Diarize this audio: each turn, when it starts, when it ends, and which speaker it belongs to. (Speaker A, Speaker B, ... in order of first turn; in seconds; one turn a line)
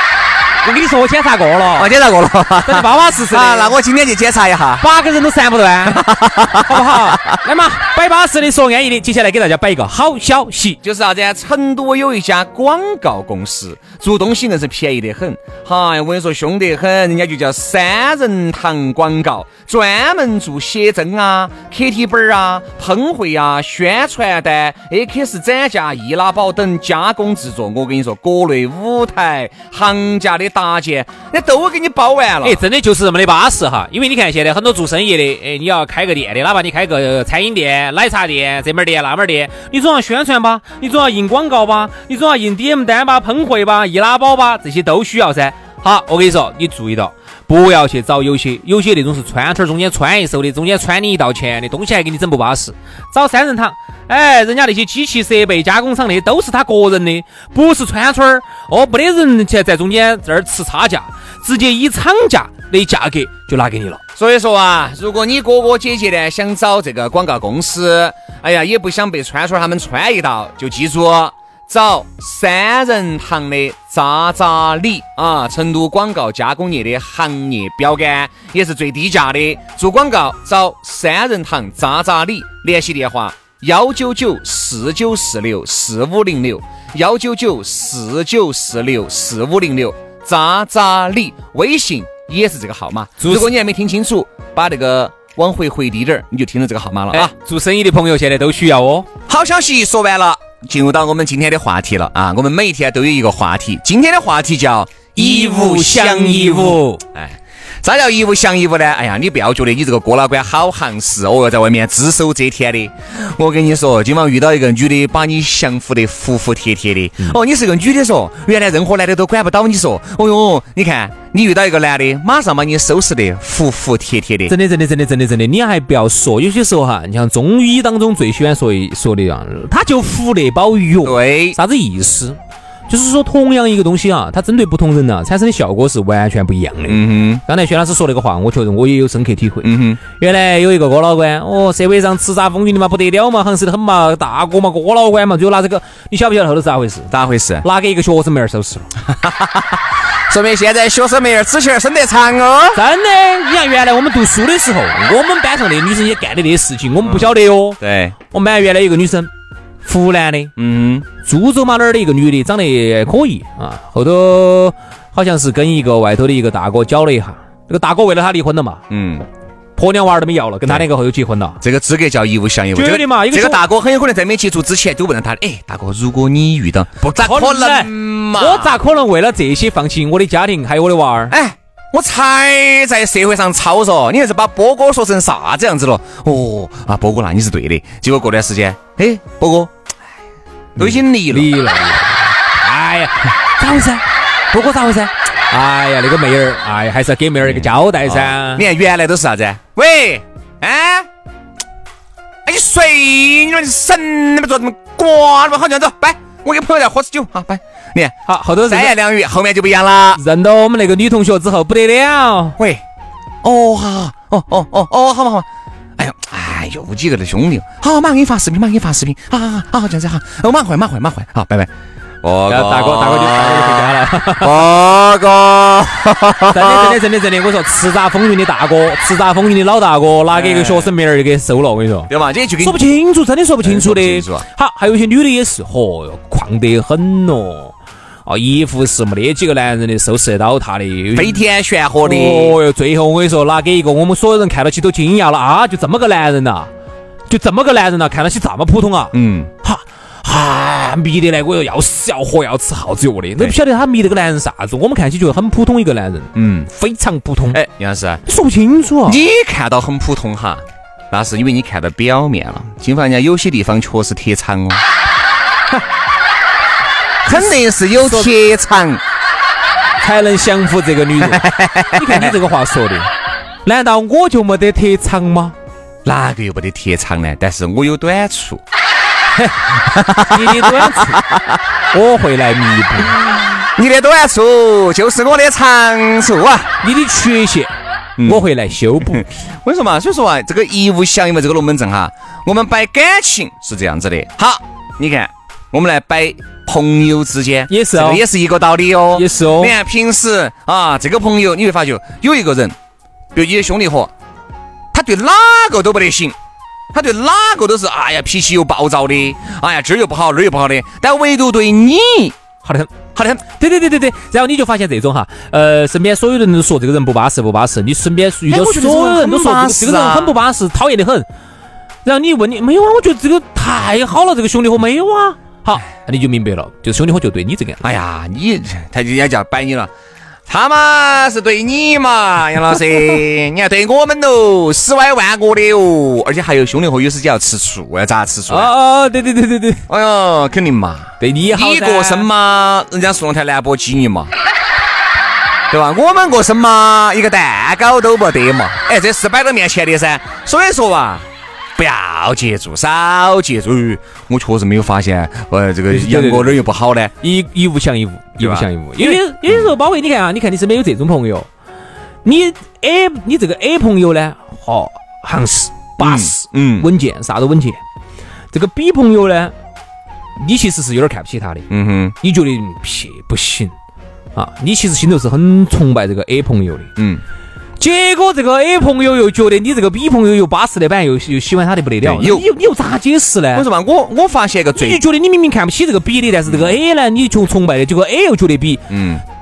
Speaker A: 0.6-1.9
Speaker B: 1.8-4.9
Speaker A: 2.7-3.8
Speaker A: 4.8-6.0
Speaker B: 5.8-7.4
Speaker A: 6.6-10.8
Speaker B: 10.8-32.6
Speaker A: 32.4-64.0
Speaker B: 64.2-97.3
Speaker A: 93.2-93.5
Speaker A: 97.1-99.1
Speaker B: 99.3-124.5
Speaker A: 105.2-107.0
Speaker A: 124.5-132.4
Speaker B: 131.0-131.6
Speaker A: 132.9-147.1
Speaker B: 136.9-137.4
Speaker B: 139.6-140.0
Speaker B: 147.1-147.7
Speaker A: 147.6-148.9
Speaker B: 149.1-152.8
Speaker A: 152.7-157.8
Speaker B: 157.0-158.2
Speaker A: 158.3-159.3
Speaker A: 159.8-160.5
Speaker B: 160.6-161.1
Speaker A: 161.2-168.8
Speaker B: 168.9-169.3
Speaker A: 169.8-171.6
Speaker B: 171.6-178.8
Speaker A: 172.8-173.6
Speaker A: 177.1-181.3
Speaker B: 181.3-189.7
Speaker B: 190.8-191.5
Speaker A: 190.8-198.7
Speaker B: 197.5-201.1
Speaker B: 202.4-210.2
Speaker A: 208.3-209.0
Speaker A: 210.1-212.6
Speaker B: 212.6-212.8
Speaker B: 213.4-215.5
Speaker B: 216.0-221.7
Speaker B: 222.2-227.0
Speaker A: 222.5-224.7
Speaker A: 226.5-237.8
Speaker B: 230.3-230.9
Speaker B: 232.1-232.9
Speaker B: 233.6-234.4
Speaker A: 238.3-241.4
Speaker B: 241.1-242.6
Speaker A: 242.0-246.7
Speaker A: 247.3-257.6
Speaker B: 249.1-249.5
Speaker B: 256.4-256.7
Speaker B: 257.5-258.2
Speaker A: 258.2-259.2
Speaker B: 259.1-264.8
Speaker A: 267.2-268.3
Speaker B: 267.3-269.0
Speaker A: 270.0-273.1
Speaker B: 271.2-272.4
Speaker A: 273.6-275.6
Speaker B: 276.1-278.6
Speaker B: 279.9-281.6
Speaker A: 280.2-281.2
Speaker A: 281.9-283.2
Speaker B: 283.1-286.7
Speaker A: 286.8-289.2
Speaker B: 288.2-288.5
Speaker B: 289.0-302.8
Speaker A: 297.7-298.2
Speaker A: 299.1-299.8
Speaker B: 303.3-304.1
Speaker B: 304.9-306.4
Speaker B: 306.9-312.4
Speaker A: 312.6-312.9
Speaker B: 313.1-313.4
Speaker A: 313.5-321.3
Speaker B: 318.5-320.4
Speaker A: 322.1-327.8
Speaker B: 327.8-329.9
Speaker B: 330.5-338.7
Speaker A: 338.5-339.8
Speaker B: 339.9-344.3
Speaker A: 341.2-342.3
Speaker B: 345.7-351.3
Speaker B: 351.8-357.1
Speaker A: 355.9-356.6
Speaker A: 357.2-361.5
Speaker B: 358.4-359.7
Speaker A: 362.2-367.8
Speaker B: 366.0-366.9
Speaker A: 368.5-369.5
Speaker A: 370.4-371.7
Speaker B: 371.7-372.1
Speaker A: 372.2-373.7
Speaker A: 374.4-376.9
Speaker B: 377.0-377.2
Speaker A: 377.8-383.7
Speaker B: 382.0-382.5
Speaker B: 383.5-385.0
Speaker A: 384.8-388.9
Speaker B: 386.5-386.8
Speaker B: 388.9-389.2